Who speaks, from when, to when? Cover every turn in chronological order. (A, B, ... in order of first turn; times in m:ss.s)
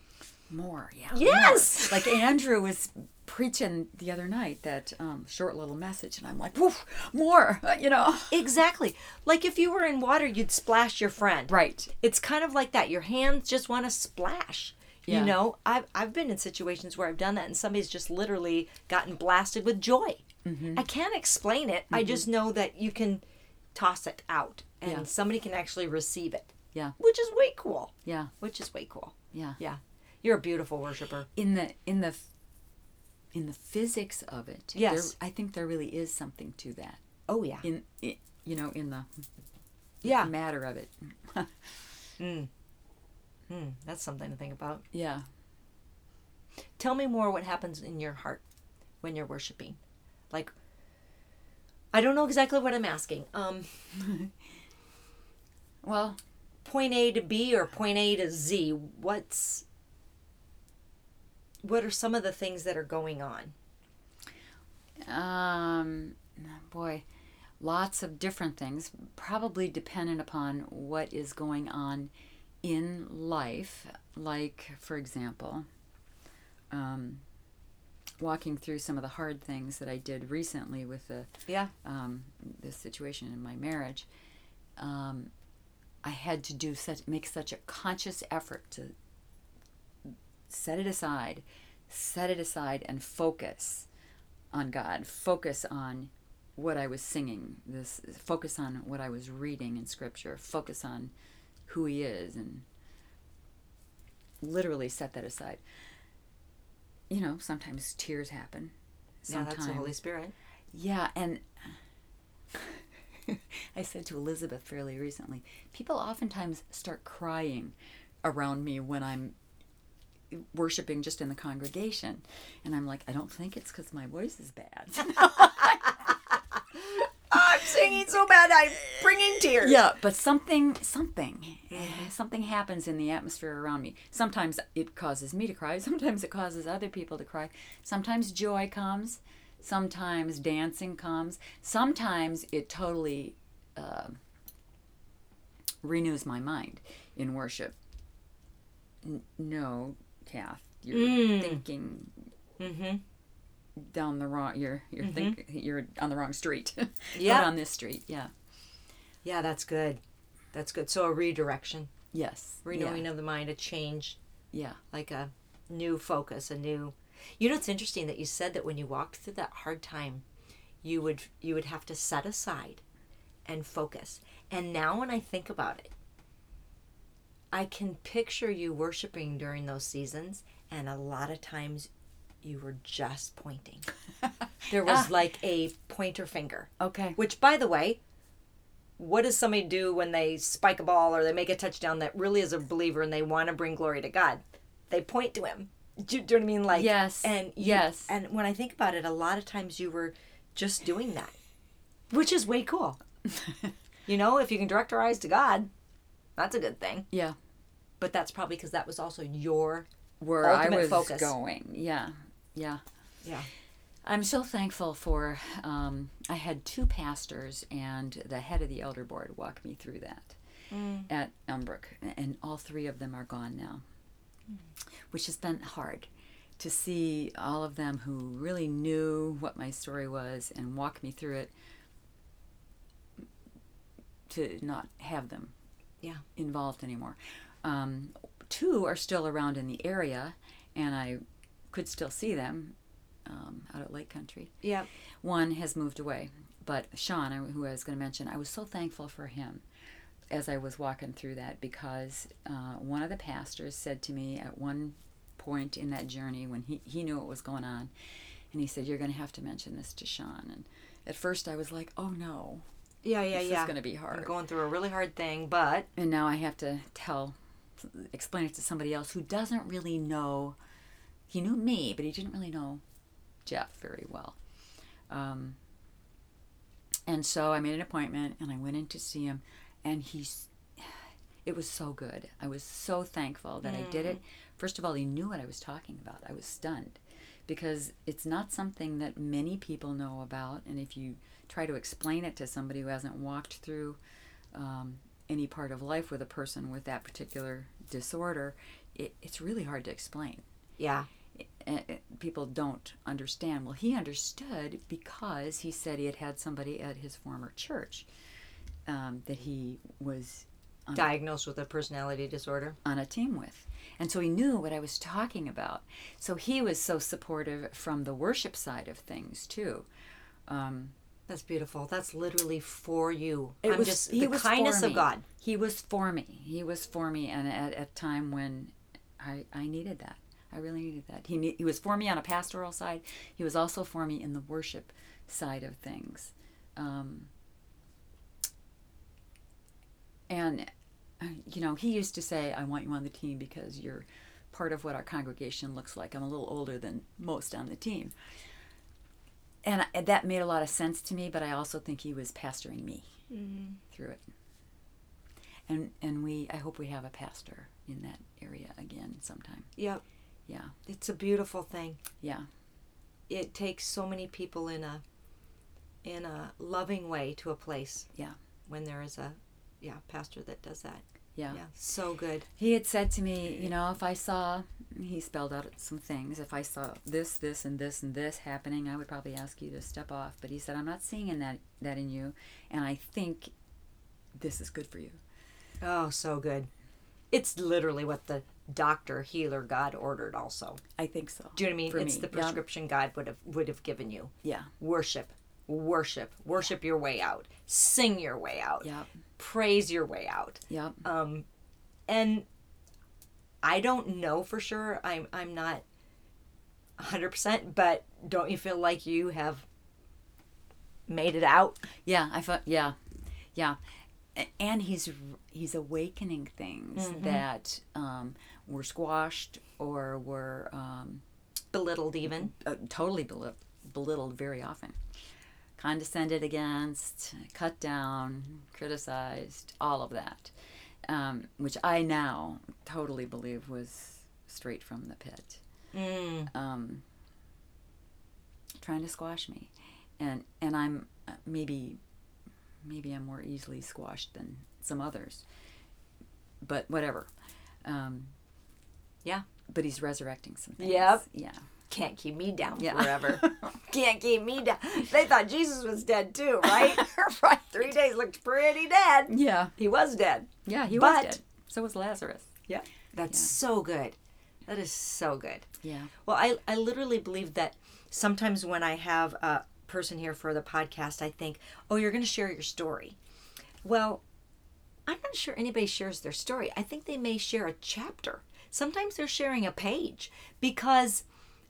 0:00.5-0:08.4 A
0:01.1-0:02.2 B
0:08.3-0:20.2 B
0:11.5-0:11.9 A
0:15.1-0:15.4 A
0:20.4-0:20.8 A
0:20.7-0:23.2 B
0:21.9-0:22.2 A
0:23.7-0:31.3 B
0:28.0-0:28.3 A
0:29.3-0:29.6 A
0:31.4-0:32.3 A
0:33.3-0:37.0 A
0:34.7-0:35.1 B
0:37.3-0:37.6 B
0:37.6-0:39.1 A
0:40.0-0:40.3 B
0:40.0-0:41.9 A
0:42.2-0:42.5 B
0:43.5-0:44.8 B
0:44.9-0:45.2 A
0:46.8-0:48.4 B
0:49.0-0:49.8 B
0:51.9-0:53.7 B
0:54.0-0:54.3 A
0:55.8-0:56.2 A
0:56.6-0:59.6 B
1:01.6-1:03.5 B
1:05.0-1:07.0 A
1:07.6-1:12.1 A
1:12.6-1:15.6 A
1:16.7-1:17.2 A
1:18.2-1:24.1 A
1:21.5-1:21.7 B
1:24.8-1:25.3 A
1:26.0-1:28.9 A
1:30.0-1:33.9 A
1:34.5-1:41.1 A
1:41.7-1:42.6 A
1:44.4-1:45.6 A
1:47.1-1:49.9 A
1:49.3-1:50.3 B
1:50.7-1:51.8 A
1:52.5-1:59.3 A
2:00.3-2:06.2 A
2:07.3-2:09.8 B
2:09.6-2:24.2 A
2:11.7-2:12.1 B
2:25.8-2:27.7 A
2:29.0-2:32.2 A
2:30.9-2:31.6 B
2:32.6-2:33.0 B
2:33.8-2:38.3 A
2:35.0-2:35.4 B
2:37.1-2:37.5 B
2:39.2-2:40.0 B
2:40.5-2:41.9 B
2:42.1-2:43.0 A
2:42.6-2:44.2 B
2:44.5-2:44.8 A
2:44.9-2:50.2 B
2:50.8-2:52.8 B
2:53.4-2:55.9 B
2:57.5-3:01.9 B
3:02.4-3:03.8 B
3:04.7-3:08.0 B
3:04.8-3:05.1 A
3:06.8-3:07.2 A
3:09.0-3:21.3 B
3:16.7-3:18.1 A
3:22.1-3:23.0 B
3:23.3-3:23.7 A
3:24.1-3:25.7 B
3:26.4-3:27.0 B
3:27.1-3:27.4 A
3:28.0-3:29.9 B
3:30.2-3:32.8 A
3:30.4-3:31.3 B
3:33.2-3:33.5 B
3:34.0-3:40.4 A
3:40.7-3:41.1 B
3:41.1-3:43.8 A
3:45.1-3:51.5 A
3:54.3-3:55.5 A
3:56.4-4:02.7 A
4:03.2-4:04.5 A
4:04.6-4:04.9 B
4:05.2-4:09.6 A
4:10.3-4:17.9 A
4:18.5-4:22.6 A
4:23.0-4:25.9 B
4:23.3-4:24.3 A
4:26.0-4:30.6 A
4:31.3-4:32.8 A
4:33.4-4:34.4 A
4:35.1-4:35.6 A
4:37.0-4:54.0 A
4:43.6-4:44.2 B
4:54.5-5:00.4 A
5:00.8-5:01.1 B
5:01.4-5:08.1 A
5:08.8-5:11.1 A
5:10.9-5:12.8 B
5:12.8-5:19.9 A
5:20.5-5:20.9 A
5:21.3-5:25.2 B
5:23.6-5:37.3 A
5:40.3-5:48.1 A
5:49.6-5:53.0 A
5:53.3-5:53.8 B
5:53.9-5:54.2 A
5:55.7-5:59.7 A
5:59.8-6:00.0 B
6:00.5-6:00.7 A
6:00.9-6:02.0 B
6:02.2-6:02.5 A
6:03.3-6:05.0 B
6:06.0-6:08.1 B
6:08.7-6:12.5 B
6:12.6-6:23.5 A
6:24.3-6:25.2 A
6:25.8-6:26.7 B
6:27.3-6:30.8 B
6:31.0-6:32.6 A
6:31.6-6:41.4 B
6:34.4-6:34.7 A
6:38.8-6:39.1 A
6:40.7-6:41.0 A
6:42.1-6:42.4 B
6:43.6-6:45.8 B
6:47.0-6:49.6 B
6:51.1-6:51.8 B
6:52.0-6:53.0 A
6:54.3-7:01.2 A
6:57.0-6:57.4 B
7:01.7-7:02.5 B
7:02.3-7:05.0 A
7:05.8-7:10.5 A
7:11.0-7:15.6 A
7:15.9-7:16.5 B
7:16.5-7:17.0 A
7:18.8-7:22.0 A
7:22.8-7:25.4 A
7:26.6-7:27.3 A
7:27.8-7:28.3 A
7:29.7-7:31.6 A
7:30.8-7:31.2 B
7:31.9-7:41.3 B
7:32.8-7:33.7 A
7:36.6-7:37.0 A
7:39.3-7:39.7 A
7:40.6-7:42.5 A
7:42.7-7:44.1 B
7:44.7-7:45.7 B
7:45.8-7:46.1 A
7:46.2-7:53.2 B
7:53.8-7:54.2 B
7:55.1-8:01.2 B